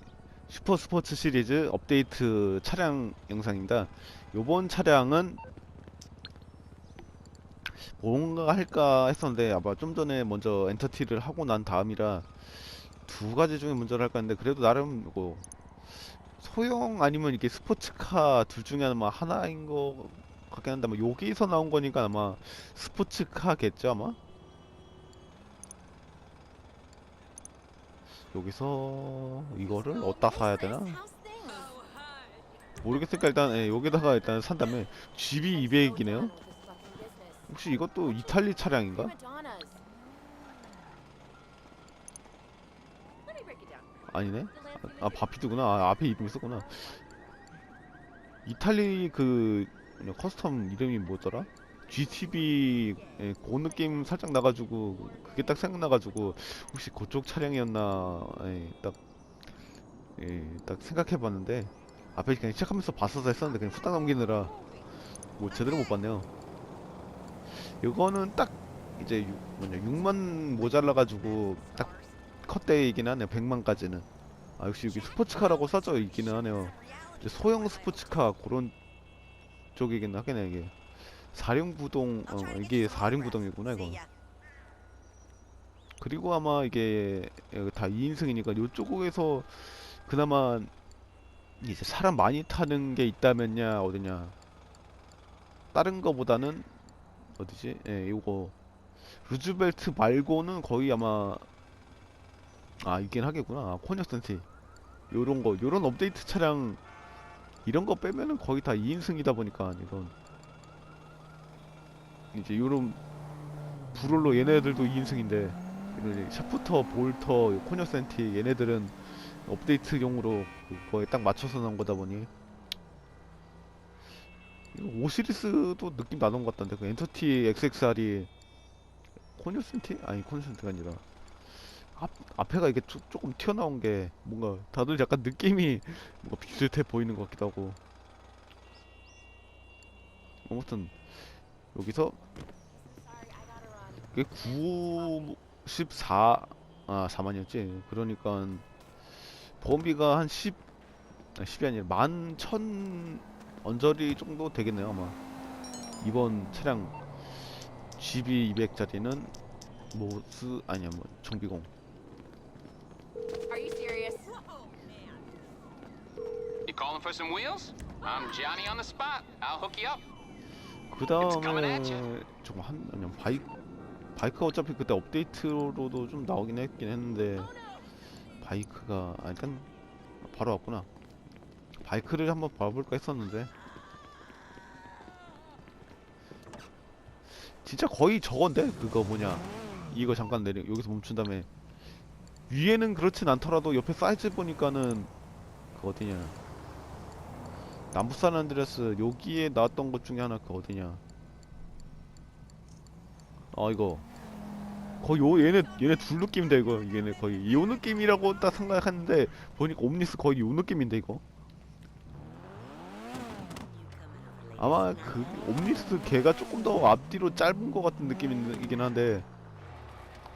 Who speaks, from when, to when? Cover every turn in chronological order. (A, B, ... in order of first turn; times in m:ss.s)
0:00.5-0:05.4 A
0:07.7-0:15.5 A
0:16.3-0:24.2 A
0:28.3-0:31.0 A
0:29.6-0:31.8 B
0:32.8-0:36.4 A
0:33.2-0:33.8 B
0:34.3-0:34.9 B
0:35.4-0:39.8 B
0:37.5-0:39.1 A
0:43.2-0:47.4 B
0:44.1-0:47.0 A
0:48.4-0:59.0 A
0:51.4-0:56.8 B
1:00.2-1:04.5 A
1:03.4-1:05.0 B
1:05.4-1:06.3 A
1:07.6-1:11.9 A
1:09.9-1:12.2 B
1:12.4-1:14.1 A
1:14.6-1:18.7 A
1:14.8-1:18.4 B
1:19.8-1:20.8 A
1:21.3-1:24.0 A
1:22.3-1:24.1 B
1:26.0-1:30.7 A
1:31.6-1:34.4 A
1:35.7-1:36.7 A
1:37.4-1:38.6 A
1:39.2-1:41.5 A
1:42.8-1:44.4 A
1:45.1-1:46.8 A
1:47.6-1:50.1 A
1:52.3-1:53.0 A
1:53.9-2:02.3 A
2:04.7-2:08.3 A
2:09.4-2:11.0 A
2:12.0-2:17.8 A
2:20.5-2:21.2 A
2:21.7-2:22.2 A
2:22.7-2:25.4 B
2:24.1-2:28.6 A
2:29.6-2:30.6 A
2:31.4-2:35.2 A
2:36.0-2:37.0 A
2:38.0-2:39.3 A
2:39.9-2:41.7 A
2:43.5-2:44.6 B
2:46.7-2:50.0 C
2:50.9-2:53.5 A
2:51.2-2:52.1 C
2:54.2-2:57.5 A
2:58.4-2:59.7 A
3:00.2-3:00.9 A
3:01.8-3:03.5 A
3:07.5-3:11.5 A
3:12.5-3:15.1 A
3:15.7-3:16.4 A
3:17.9-3:21.0 A
3:23.5-3:24.1 A
3:25.0-3:31.2 A
3:33.7-3:35.7 B
3:34.6-3:39.3 A